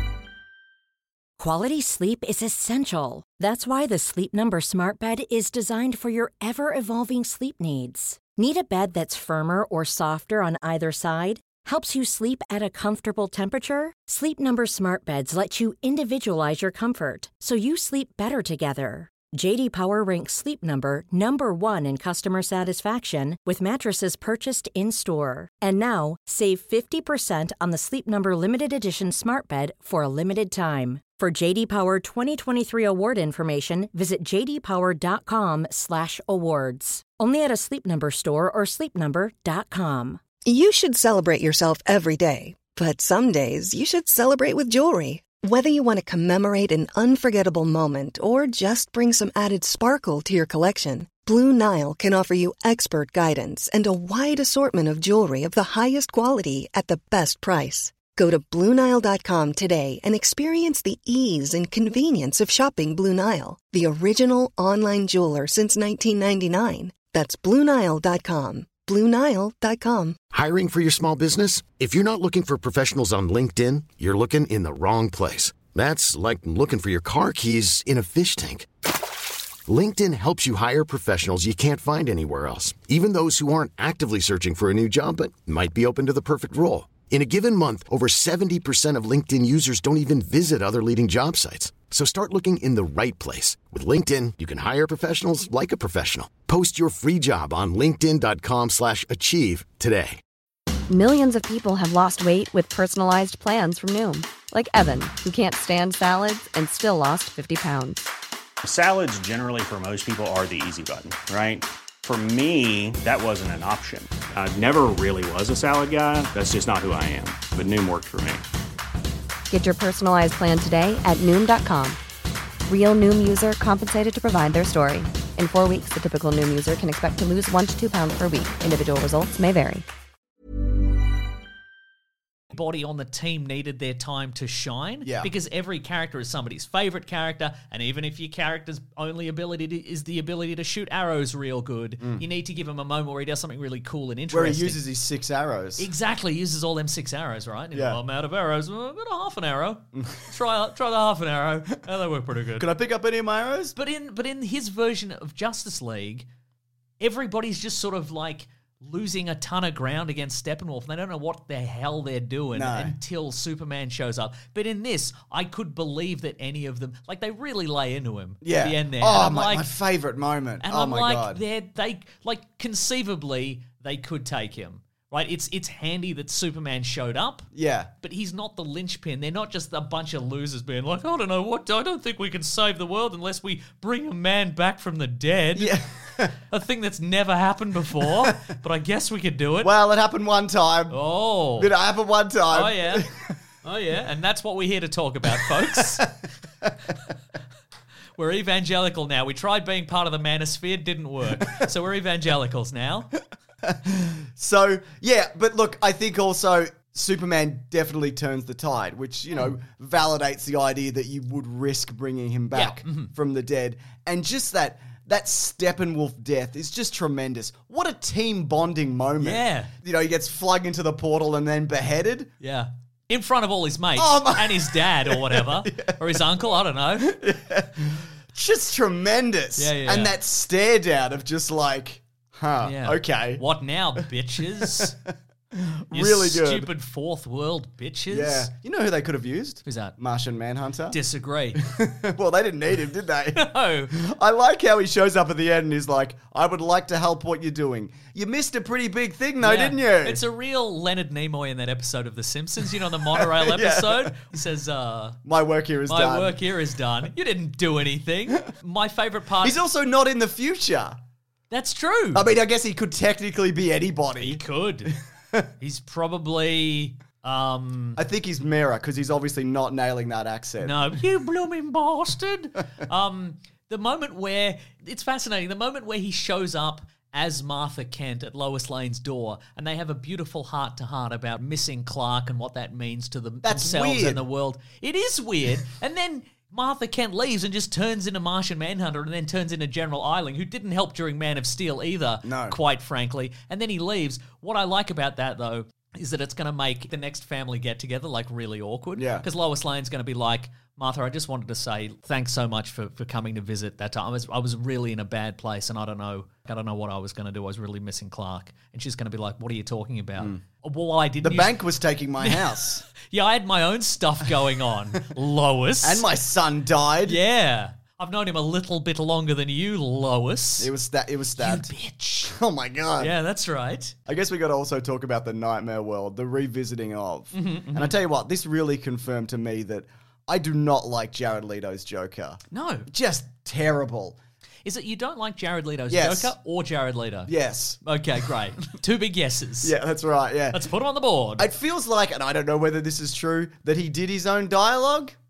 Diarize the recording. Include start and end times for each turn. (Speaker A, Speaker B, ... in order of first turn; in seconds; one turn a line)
Speaker A: 1.4-40.2
Speaker B: 40.4-70.2
Speaker C: 70.3-78.7
Speaker C: 79.7-100.2
Speaker D: 100.9-108.1
Speaker E: 108.6-118.4
Speaker D: 119.5-122.0
Speaker D: 122.7-129.8
Speaker F: 132.5-144.8
Speaker G: 135.0-135.3
Speaker G: 144.3-145.9
Speaker F: 145.8-152.7
Speaker G: 147.7-148.0
Speaker G: 152.6-153.8
Speaker F: 153.7-156.2
Speaker F: 157.0-169.7
Speaker G: 162.5-163.0
Speaker G: 168.4-171.4
Speaker F: 170.6-177.5
Speaker G: 177.5-177.9
Speaker F: 178.0-185.8
Speaker G: 185.6-186.3
Speaker F: 186.3-189.7
Speaker G: 189.6-191.0
Speaker F: 190.9-191.7
Speaker G: 191.6-193.3
Speaker F: 192.5-193.1
Speaker F: 193.6-196.1
Speaker G: 195.4-196.7
Speaker F: 198.2-203.1
Speaker G: 201.3-201.6
Speaker G: 203.6-222.3
Speaker F: 212.5-213.1
Speaker F: 219.2-219.7
Speaker F: 222.4-227.2
Speaker G: 223.9-226.2
Speaker G: 227.0-233.4
Speaker F: 229.6-230.1
Speaker F: 232.6-234.9
Speaker G: 234.6-236.7
Speaker F: 235.9-238.5
Speaker G: 238.1-241.0
Speaker F: 239.6-240.0
Speaker F: 240.9-241.6
Speaker G: 241.5-250.2
Speaker F: 243.3-243.9
Speaker F: 249.4-255.2
Speaker G: 253.1-254.2
Speaker G: 255.2-256.4
Speaker F: 255.9-259.6
Speaker G: 259.4-261.0
Speaker F: 261.5-262.2
Speaker G: 262.1-265.5
Speaker F: 264.2-264.9
Speaker F: 265.6-268.0
Speaker G: 268.0-271.0
Speaker F: 270.6-311.6
Speaker G: 283.4-284.2
Speaker G: 292.2-292.6
Speaker G: 298.9-299.2
Speaker G: 311.2-312.9
Speaker F: 312.2-316.0
Speaker G: 315.8-317.2
Speaker F: 317.0-320.7
Speaker G: 320.6-321.7
Speaker F: 321.4-322.3
Speaker G: 322.2-323.1
Speaker F: 323.0-323.9
Speaker G: 324.1-334.2
Speaker F: 327.3-327.9
Speaker F: 332.5-332.9
Speaker F: 334.6-337.3
Speaker G: 335.9-336.3
Speaker G: 337.3-337.8
Speaker F: 337.8-339.7
Speaker G: 339.6-340.6
Speaker F: 340.5-341.5
Speaker G: 341.4-345.1